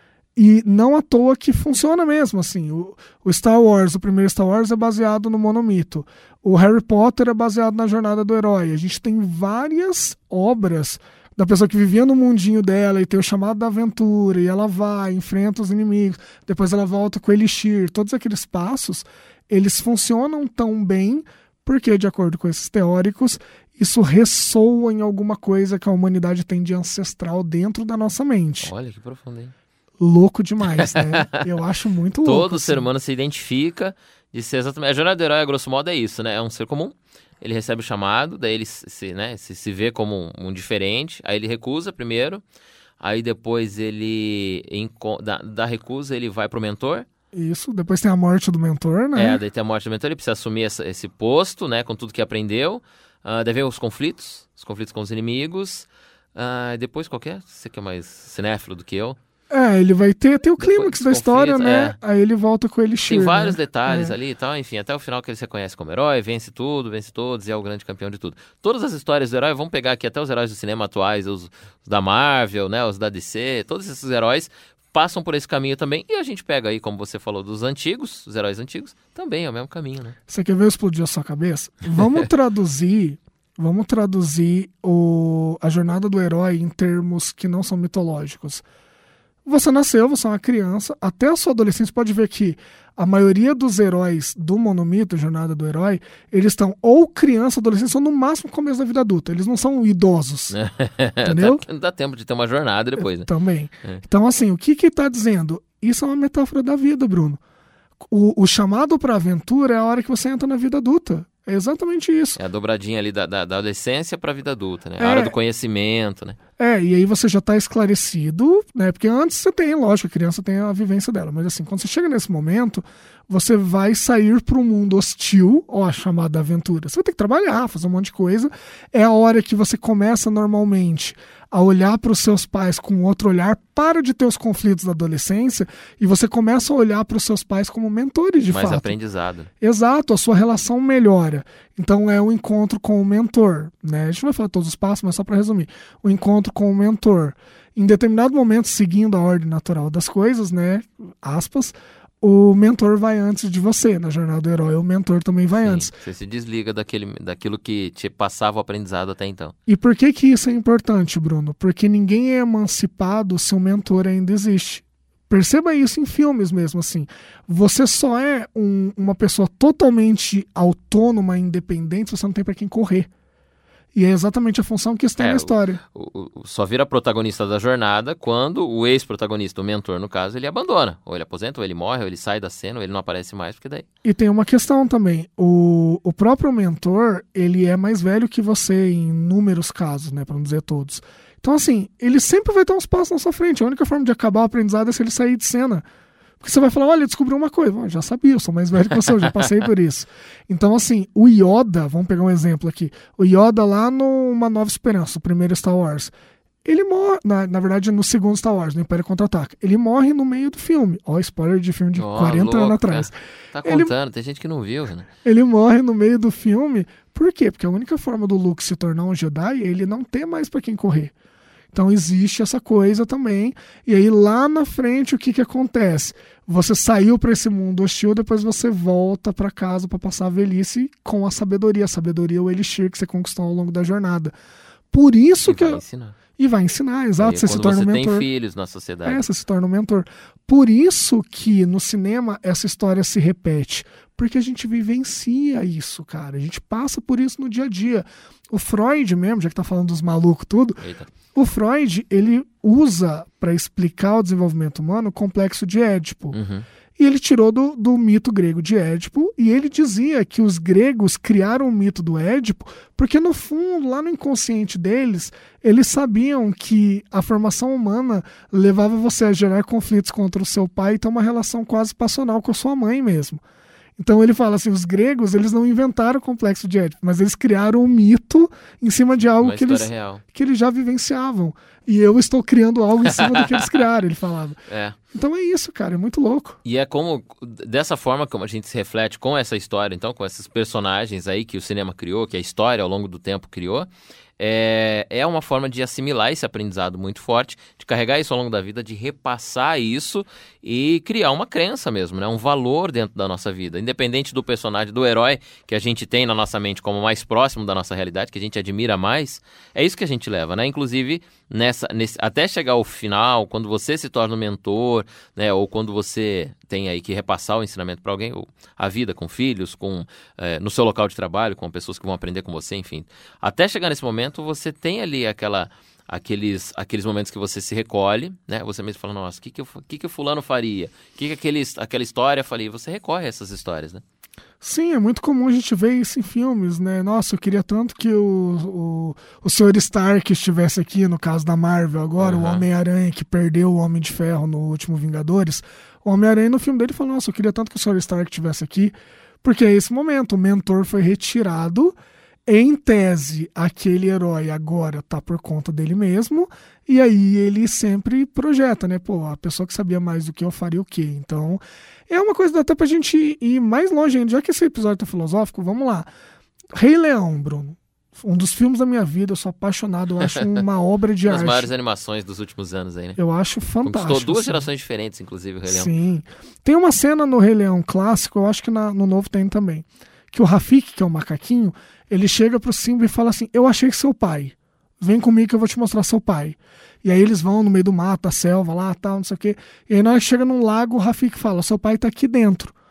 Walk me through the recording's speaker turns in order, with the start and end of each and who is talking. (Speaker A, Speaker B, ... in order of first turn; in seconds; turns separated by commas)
Speaker A: 0.4-28.7, Speaker B: 28.6-29.5, Speaker A: 30.0-32.8, Speaker B: 30.8-31.4, Speaker B: 32.2-42.4, Speaker B: 43.0-47.1, Speaker A: 47.3-49.4, Speaker B: 49.1-59.2, Speaker A: 59.5-64.1, Speaker B: 60.6-62.0, Speaker B: 63.1-80.2, Speaker A: 80.3-88.6, Speaker A: 89.5-100.5, Speaker B: 100.5-103.3, Speaker A: 101.2-101.6, Speaker A: 103.0-107.4, Speaker A: 108.0-112.4, Speaker B: 112.4-116.4, Speaker A: 115.0-115.3, Speaker A: 116.6-138.9, Speaker B: 138.5-139.5, Speaker A: 139.6-155.9, Speaker B: 155.6-159.6, Speaker A: 159.7-173.1, Speaker A: 173.9-175.8, Speaker B: 175.2-183.9, Speaker A: 184.0-195.9, Speaker A: 196.4-206.1, Speaker A: 206.7-213.9, Speaker B: 211.9-215.1, Speaker A: 215.2-221.1, Speaker A: 221.7-234.3, Speaker A: 234.9-235.8, Speaker B: 235.4-236.2, Speaker A: 236.4-238.3, Speaker B: 237.2-239.2, Speaker A: 239.1-250.8, Speaker B: 250.8-251.1, Speaker A: 251.3-256.4, Speaker B: 256.3-256.7, Speaker A: 257.0-273.4, Speaker A: 274.0-284.6, Speaker B: 279.4-280.2, Speaker B: 283.1-283.6, Speaker B: 284.7-285.0, Speaker A: 285.1-286.6, Speaker B: 286.6-334.0, Speaker A: 334.6-352.0, Speaker B: 342.2-342.6, Speaker A: 352.5-366.1, Speaker A: 366.7-371.7, Speaker B: 371.2-373.2, Speaker A: 373.2-374.7, Speaker B: 373.8-375.9, Speaker A: 375.7-392.7